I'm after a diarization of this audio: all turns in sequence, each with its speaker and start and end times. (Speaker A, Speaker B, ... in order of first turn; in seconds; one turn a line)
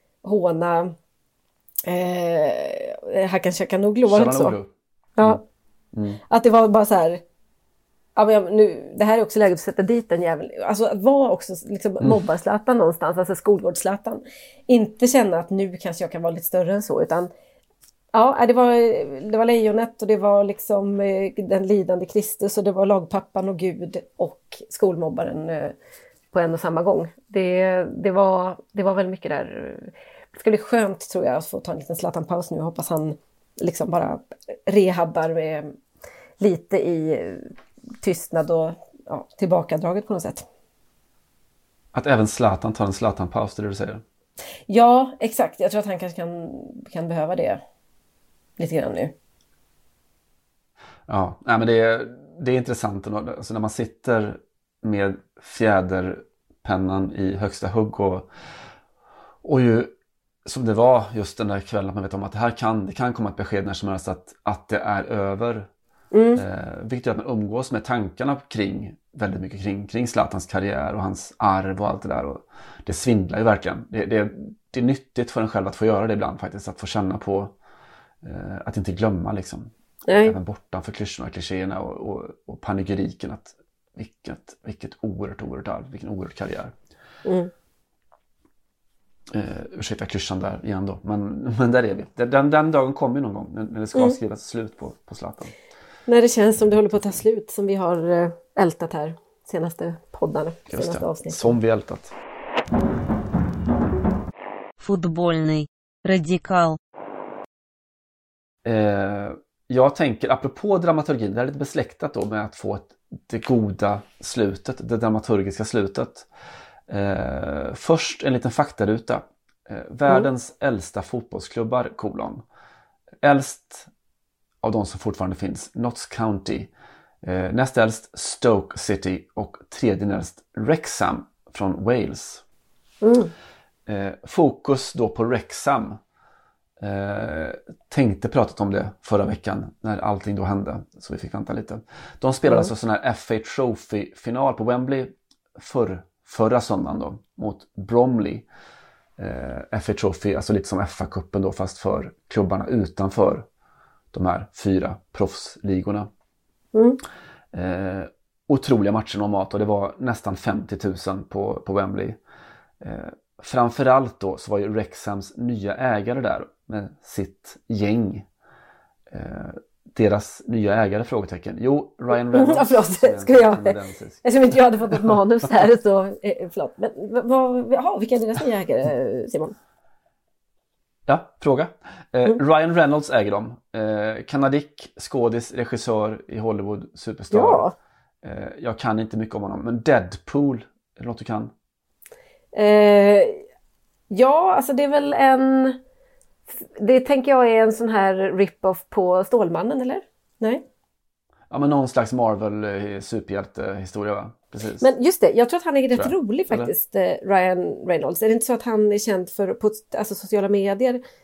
Speaker A: 0.2-0.9
Speaker A: 1.9-4.6
Speaker B: 4.1-4.7
Speaker A: 5.2-5.4
Speaker B: 5.9-6.2
Speaker A: 6.3-7.2
Speaker A: 8.2-17.3
Speaker A: 18.1-25.7
Speaker A: 26.3-35.7
Speaker A: 36.4-40.5
Speaker B: 41.9-44.0
Speaker A: 44.7-47.6
Speaker A: 48.6-49.1
Speaker B: 51.1-58.3
Speaker B: 59.4-59.9
Speaker B: 60.5-65.7
Speaker A: 66.1-66.4
Speaker B: 66.4-77.5
Speaker B: 78.2-86.7
Speaker A: 80.1-80.4
Speaker A: 87.2-87.5
Speaker B: 89.3-95.5
Speaker A: 96.1-101.6
Speaker B: 100.7-102.1
Speaker C: 104.8-106.8
Speaker B: 108.6-116.3
Speaker B: 116.9-122.4
Speaker B: 123.2-123.9
Speaker B: 124.6-126.7
Speaker B: 127.2-132.4
Speaker A: 133.0-133.3
Speaker B: 133.9-136.0
Speaker B: 136.8-148.5
Speaker B: 149.2-153.4
Speaker B: 154.1-156.1
Speaker A: 156.7-157.0
Speaker B: 157.5-162.2
Speaker B: 162.8-168.3
Speaker B: 169.1-174.3
Speaker A: 172.2-179.6
Speaker B: 181.1-187.7
Speaker A: 187.3-187.7
Speaker B: 188.2-191.5
Speaker A: 192.5-193.4
Speaker A: 194.1-195.8
Speaker A: 196.6-200.6
Speaker B: 201.5-204.9
Speaker A: 204.8-211.0
Speaker B: 205.9-206.7